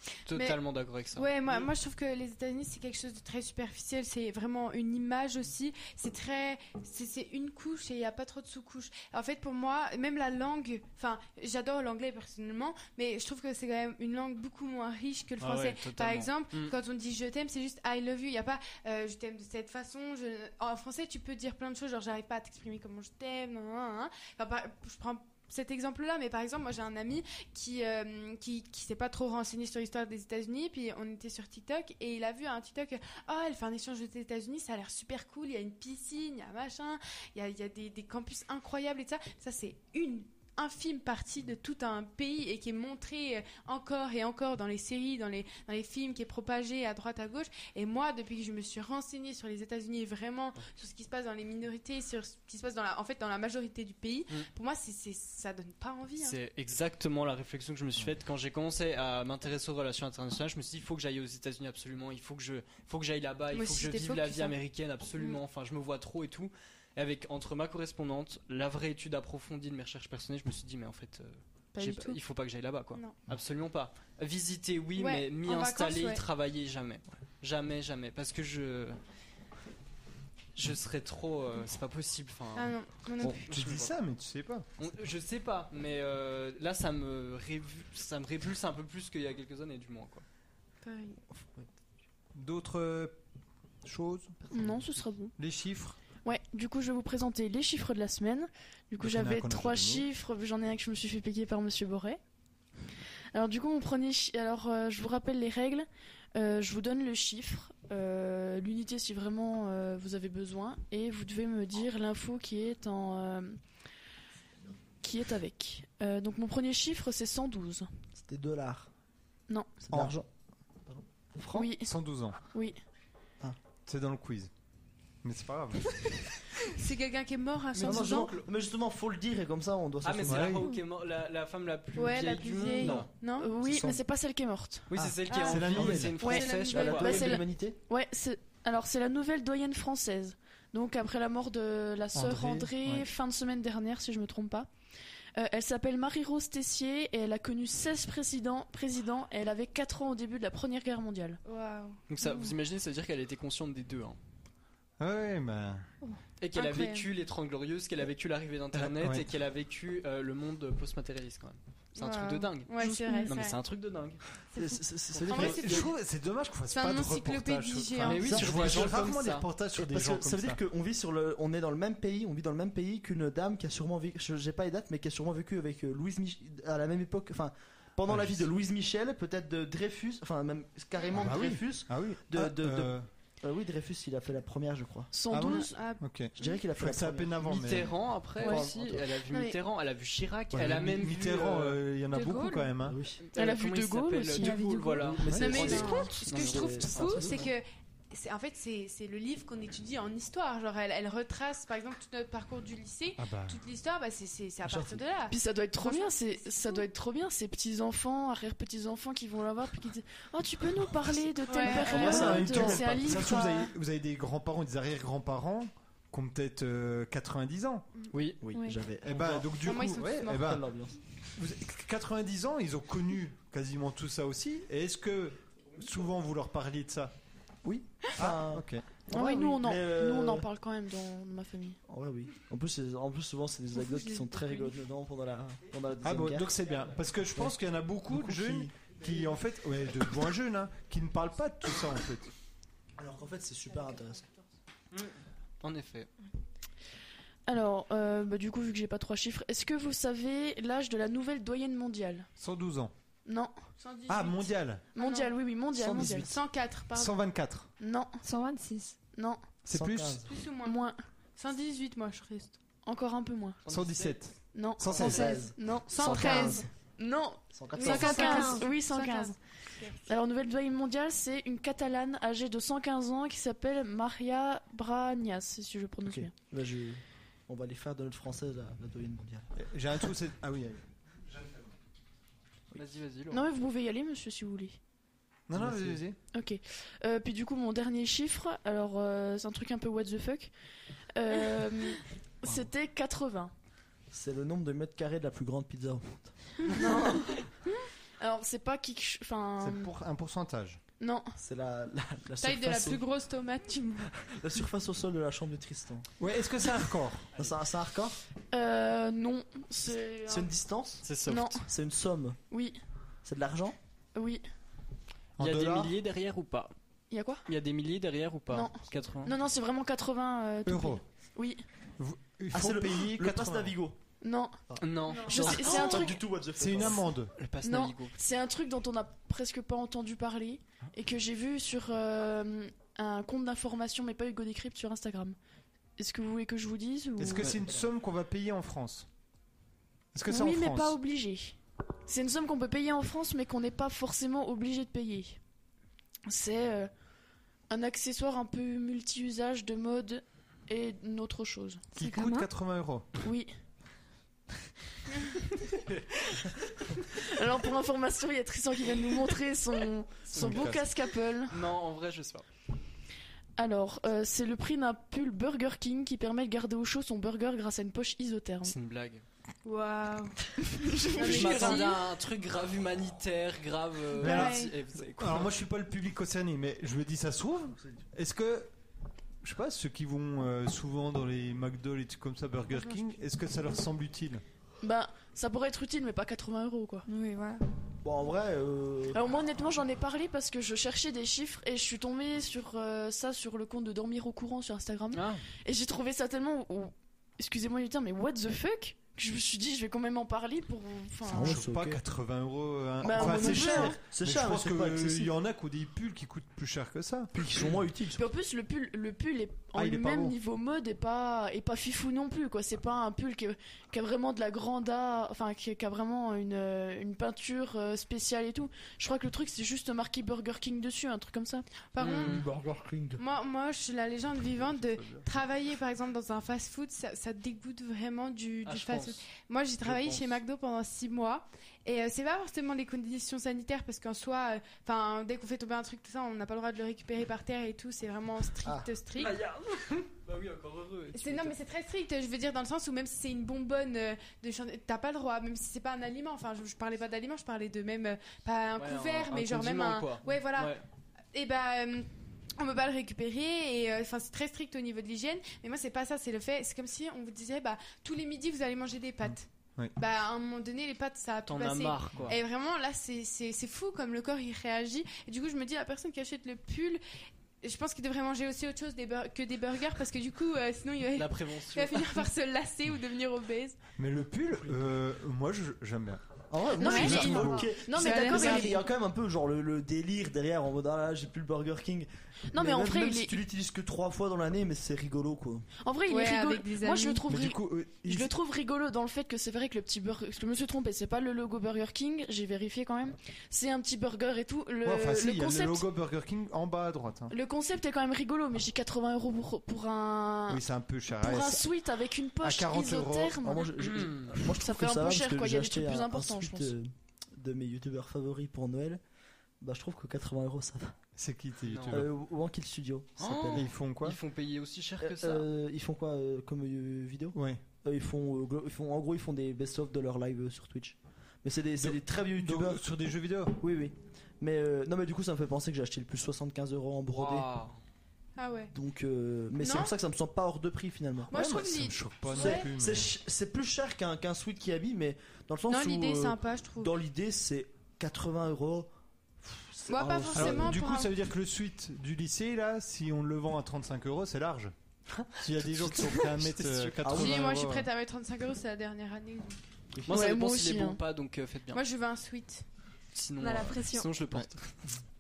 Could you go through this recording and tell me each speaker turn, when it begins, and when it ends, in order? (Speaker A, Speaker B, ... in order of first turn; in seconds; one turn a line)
Speaker A: 0.3-1.7
Speaker B: 0.3-0.6
Speaker B: 1.1-56.4
Speaker A: 15.4-16.7
Speaker A: 56.2-79.0
Speaker B: 63.5-64.5
Speaker B: 71.7-72.2
Speaker B: 75.0-76.2
Speaker A: 80.5-82.8
Speaker B: 82.6-83.5
Speaker C: 83.2-84.7
Speaker A: 83.3-83.9
Speaker A: 84.8-90.2
Speaker B: 90.8-91.2
Speaker D: 91.3-91.7
Speaker C: 92.3-93.2
Speaker C: 93.8-94.8
Speaker E: 94.5-95.3
Speaker C: 95.3-96.0
Speaker E: 96.2-102.2
Speaker C: 99.0-100.1
Speaker E: 103.3-113.6
Speaker E: 115.0-117.9
Speaker D: 118.2-118.9
Speaker D: 119.9-120.3
Speaker D: 120.8-121.7
Speaker E: 121.5-121.9
Speaker C: 121.8-122.4
Speaker E: 122.5-122.8
Speaker C: 123.9-124.5
Speaker C: 125.2-126.2
Speaker B: 126.6-128.3
Speaker D: 127.8-130.6
Speaker A: 127.8-128.3
Speaker A: 130.0-133.1
Speaker C: 130.3-130.6
Speaker B: 131.9-133.5
Speaker D: 132.8-133.1
Speaker E: 133.4-134.9
Speaker D: 133.6-134.0
Speaker A: 134.9-137.2
Speaker C: 134.9-136.2
Speaker B: 135.3-137.3
Speaker D: 135.8-136.0
Speaker E: 136.2-144.7
Speaker D: 136.7-137.8
Speaker C: 142.1-143.1
Speaker E: 145.3-151.4
Speaker B: 151.4-152.5
Speaker A: 152.1-154.2
Speaker C: 155.0-155.9
Speaker A: 156.4-164.2
Speaker B: 156.6-157.1
Speaker C: 158.7-159.3
Speaker B: 162.0-163.6
Speaker E: 162.8-163.3
Speaker D: 164.5-165.9
Speaker B: 164.5-166.0
Speaker A: 165.1-165.6
Speaker C: 165.3-170.6
Speaker B: 166.7-168.4
Speaker A: 168.0-169.4
Speaker D: 168.1-168.8
Speaker D: 169.8-185.1
Speaker C: 178.1-178.4
Speaker C: 181.1-183.1
Speaker E: 185.1-185.7
Speaker C: 185.3-187.9
Speaker B: 185.4-186.6
Speaker D: 186.3-187.9
Speaker A: 187.4-191.8
Speaker D: 188.4-189.1
Speaker C: 190.5-193.0
Speaker D: 192.8-193.2
Speaker A: 193.2-197.4
Speaker E: 193.3-196.1
Speaker D: 195.0-197.5
Speaker B: 195.3-206.9
Speaker C: 203.2-203.6
Speaker D: 204.6-205.0
Speaker E: 205.3-213.7
Speaker B: 211.5-213.5
Speaker D: 211.8-213.1
Speaker C: 211.9-217.9
Speaker A: 218.1-218.4
Speaker D: 218.4-221.0
Speaker C: 219.0-220.7
Speaker B: 219.6-220.5
Speaker C: 221.3-227.1
Speaker D: 227.6-230.5
Speaker C: 228.2-228.8
Speaker E: 229.1-231.8
Speaker D: 231.9-236.5
Speaker B: 234.0-234.2
Speaker C: 236.0-242.3
Speaker D: 238.1-239.1
Speaker D: 243.0-244.3
Speaker A: 244.9-246.1
Speaker E: 247.5-252.3
Speaker C: 252.4-252.9
Speaker E: 253.3-253.5
Speaker B: 253.8-255.3
Speaker C: 254.1-254.8
Speaker E: 254.9-256.3
Speaker D: 255.7-256.4
Speaker B: 256.0-257.2
Speaker C: 256.9-257.7
Speaker E: 257.8-258.2
Speaker F: 258.2-259.0
Speaker E: 259.1-259.4
Speaker C: 259.6-260.2
Speaker D: 259.7-260.3
Speaker B: 260.2-260.8
Speaker E: 260.6-261.0
Speaker B: 261.4-262.6
Speaker E: 262.9-263.6
Speaker A: 263.6-264.2
Speaker C: 263.7-265.5
Speaker E: 264.5-269.4
Speaker D: 264.9-266.6
Speaker B: 265.9-266.6
Speaker D: 267.5-268.4
Speaker B: 267.8-269.9
Speaker F: 267.9-268.7
Speaker E: 270.1-276.3
Speaker D: 276.1-279.5
Speaker C: 279.6-281.7
Speaker A: 282.7-283.4
Speaker E: 283.3-284.8
Speaker C: 285.5-286.2
Speaker D: 285.5-286.0
Speaker E: 286.3-290.5
Speaker E: 291.1-293.5
Speaker D: 294.1-296.7
Speaker E: 296.7-297.4
Speaker E: 298.2-299.9
Speaker C: 299.6-300.8
Speaker E: 301.0-301.4
Speaker D: 301.4-303.0
Speaker B: 302.4-304.1
Speaker D: 304.2-306.1
Speaker C: 306.2-307.3
Speaker D: 307.4-308.2
Speaker E: 308.5-310.5
Speaker D: 310.3-312.4
Speaker A: 311.0-311.6
Speaker E: 311.3-311.6
Speaker E: 312.5-312.8
Speaker D: 313.2-313.8
Speaker E: 314.1-314.4
Speaker C: 315.4-315.9
Speaker A: 315.4-316.7
Speaker D: 315.5-315.8
Speaker E: 317.1-317.4
Speaker A: 317.4-319.3
Speaker E: 318.5-321.6
Speaker C: 320.6-321.0
Speaker C: 322.0-323.7
Speaker D: 322.5-324.0
Speaker E: 324.2-324.6
Speaker D: 324.7-327.0
Speaker A: 324.8-326.1
Speaker B: 325.1-326.0
Speaker E: 325.1-326.2
Speaker C: 326.6-327.3
Speaker A: 326.8-328.1
Speaker E: 327.6-335.4
Speaker E: 336.0-337.5
Speaker C: 337.2-339.1
Speaker C: 340.1-341.0
Speaker E: 340.3-345.4
Speaker E: 346.3-346.9
Speaker E: 347.7-351.9
Speaker C: 351.9-353.1
Speaker F: 352.0-352.5
Speaker E: 353.2-353.5
Speaker E: 357.0-361.6
Speaker A: 360.3-360.8
Speaker C: 360.4-360.9
Speaker A: 361.5-362.4
Speaker E: 363.6-368.7
Speaker A: 368.6-369.2
Speaker B: 369.6-370.5
Speaker E: 370.6-371.9
Speaker B: 371.0-372.0
Speaker A: 371.1-375.5
Speaker C: 374.2-378.7
Speaker B: 374.2-374.7
Speaker C: 379.4-384.4
Speaker B: 382.7-383.0
Speaker E: 384.8-387.1
Speaker F: 387.1-387.6
Speaker D: 388.0-389.2
Speaker E: 389.1-401.6
Speaker A: 395.1-395.4
Speaker D: 401.3-402.0
Speaker C: 401.4-407.6
Speaker D: 403.0-405.3
Speaker E: 403.0-404.0
Speaker D: 407.3-408.3
Speaker E: 408.1-421.6
Speaker C: 409.7-410.4
Speaker B: 421.9-422.5
Speaker A: 422.0-422.5
Speaker D: 422.4-423.2
Speaker B: 423.2-439.4
Speaker C: 424.6-425.2
Speaker A: 428.6-429.2
Speaker A: 429.8-430.4
Speaker D: 438.6-438.9
Speaker A: 439.1-441.6
Speaker B: 441.1-450.7
Speaker A: 448.8-450.9
Speaker B: 451.3-467.0
Speaker C: 459.2-459.9
Speaker A: 461.4-462.4
Speaker B: 467.6-473.8
Speaker A: 471.1-472.2
Speaker C: 474.0-476.2
Speaker D: 476.5-485.7
Speaker E: 476.8-478.8
Speaker B: 476.8-478.8
Speaker C: 476.9-477.7
Speaker E: 482.5-483.4
Speaker E: 485.8-495.9
Speaker B: 486.1-487.2
Speaker C: 487.3-488.3
Speaker C: 494.8-497.3
Speaker E: 497.3-500.6
Speaker C: 500.5-501.7
Speaker E: 501.2-503.8
Speaker C: 502.4-503.4
Speaker D: 503.4-509.0
Speaker A: 503.8-504.4
Speaker E: 504.4-506.7
Speaker D: 509.6-511.0
Speaker C: 511.1-512.1
Speaker A: 511.7-512.0
Speaker D: 511.9-513.7
Speaker A: 513.2-515.5
Speaker C: 513.5-514.2
Speaker D: 515.0-522.8
Speaker C: 517.4-517.6
Speaker C: 521.8-523.6
Speaker D: 523.6-527.5
Speaker A: 527.1-527.8
Speaker B: 528.4-528.7
Speaker D: 528.7-531.5
Speaker B: 529.6-529.9
Speaker B: 531.3-532.7
Speaker C: 531.3-533.1
Speaker D: 532.3-540.8
Speaker B: 535.7-536.9
Speaker B: 539.9-541.1
Speaker C: 540.3-544.7
Speaker A: 545.2-547.1
Speaker C: 545.4-547.9
Speaker D: 547.0-547.5
Speaker B: 547.1-549.6
Speaker D: 549.9-550.2
Speaker A: 550.1-551.8
Speaker E: 550.1-551.0
Speaker B: 551.7-552.6
Speaker A: 553.1-554.8
Speaker F: 553.4-554.1